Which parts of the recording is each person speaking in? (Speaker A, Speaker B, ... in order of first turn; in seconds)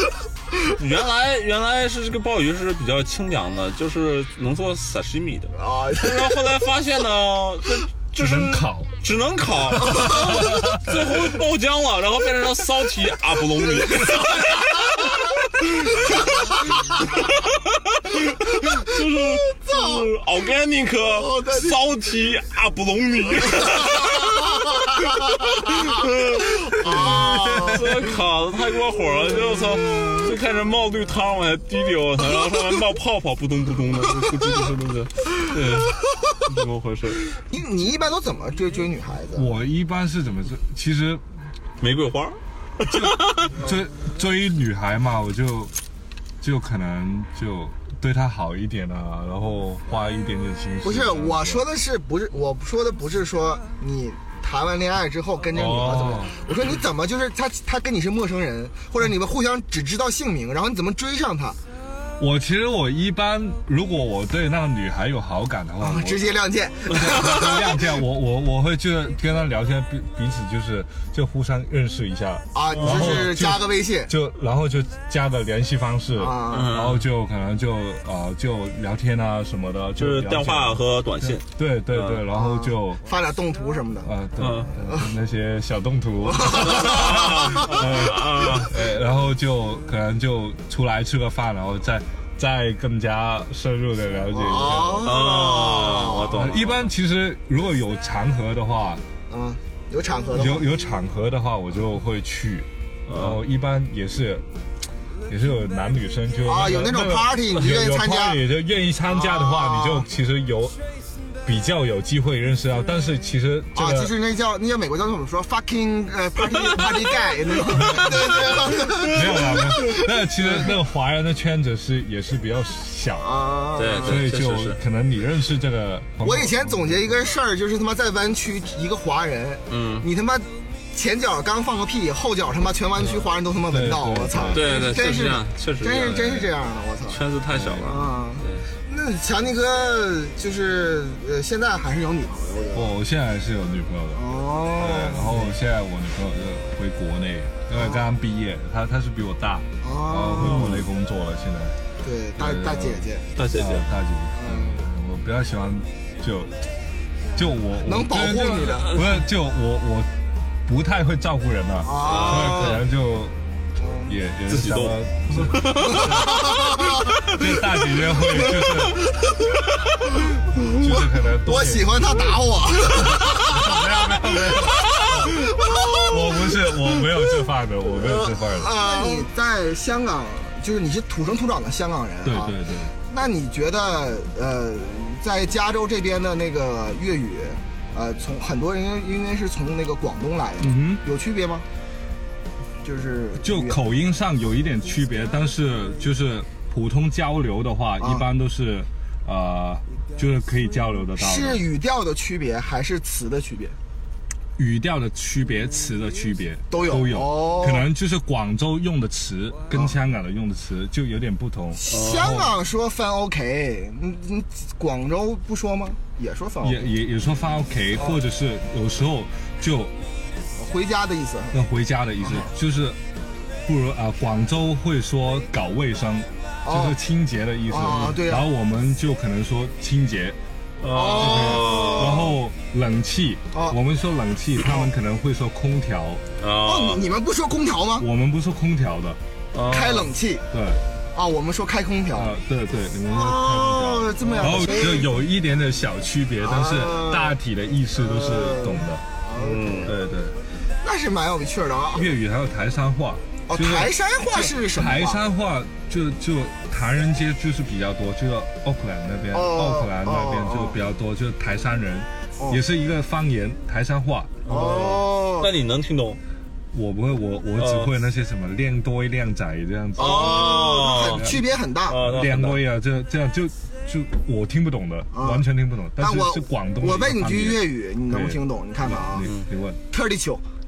Speaker A: 0.8-15.1, 18.0-24.5, 25.8-37.2, 41.8-43.6, 72.7-73.3, 76.5-77.1, 80.0-82.2, 84.4-84.7, 86.5-88.8, 95.0-96.9, 103.1-103.4, 123.8-124.8, 129.7-130.1, 134.5-136.5, 137.1-138.7, 150.4-150.9, 153.4-153.9, 162.0-162.8, 164.5-166.7, 211.9-212.4, 230.8-232.3, 236.4-237.0, 239.5-240.1, 249.4-250.0, 264.4-266.2, 267.6-267.9, 270.0-271.3, 271.9-272.6
Speaker B: 5.5-6.4, 9.9-10.3, 16.1-16.3, 18.6-18.9, 19.5-20.0, 21.0-21.8, 23.7-28.0, 37.5-39.5, 50.8-61.6, 65.8-67.8, 72.5-74.1, 76.2-76.7, 82.3-84.1, 86.3-87.7, 94.3-96.3, 99.3-100.7, 106.4-108.4, 109.1-110.1, 113.7-120.0, 123.2-124.2, 126.2-137.2, 137.8-142.9, 144.2-145.4, 147.8-148.1, 149.8-150.8, 152.0-153.3, 154.4-154.8, 157.8-158.9, 161.8-162.8, 163.8-164.1, 165.8-167.3, 170.6-170.9, 171.4-177.3, 177.9-191.7, 192.8-193.8, 201.2-203.8, 206.7-207.9, 211.7-216.9, 220.6-221.6, 222.2-222.5, 226.6-227.0, 227.7-228.5, 230.9-232.3, 236.6-238.1, 239.7-240.4, 241.1-242.3, 243.1-245.1, 246.4-247.4, 248.0-249.9, 250.8-252.1, 253.5-255.2, 259.3-260.8, 264.5-265.5, 270.0-272.0, 275.1-275.4, 276.0-279.3, 279.9-280.4
Speaker C: 8.2-8.9, 10.1-10.8, 27.4-27.8, 39.4-41.2, 42.9-45.7, 46.4-51.6, 55.5-56.4, 62.2-66.2, 66.9-83.0, 84.0-95.1, 96.3-99.0, 100.3-104.5, 105.3-110.8, 111.4-114.1, 117.8-123.3, 124.0-127.0, 133.7-134.8, 137.5-137.9, 142.7-144.2, 144.8-151.8, 152.4-156.5, 157.4-160.1, 160.7-163.4, 164.1-166.1, 167.3-169.0, 170.6-172.4, 173.1-178.8, 182.2-182.9, 190.6-191.0, 193.4-201.6, 204.6-212.5, 216.6-219.9, 221.5-223.0, 223.7-230.4, 231.1-236.2, 238.0-239.2, 240.5-240.8, 242.1-249.0, 249.8-250.4, 251.9-264.4, 266.7-271.4, 272.0-279.8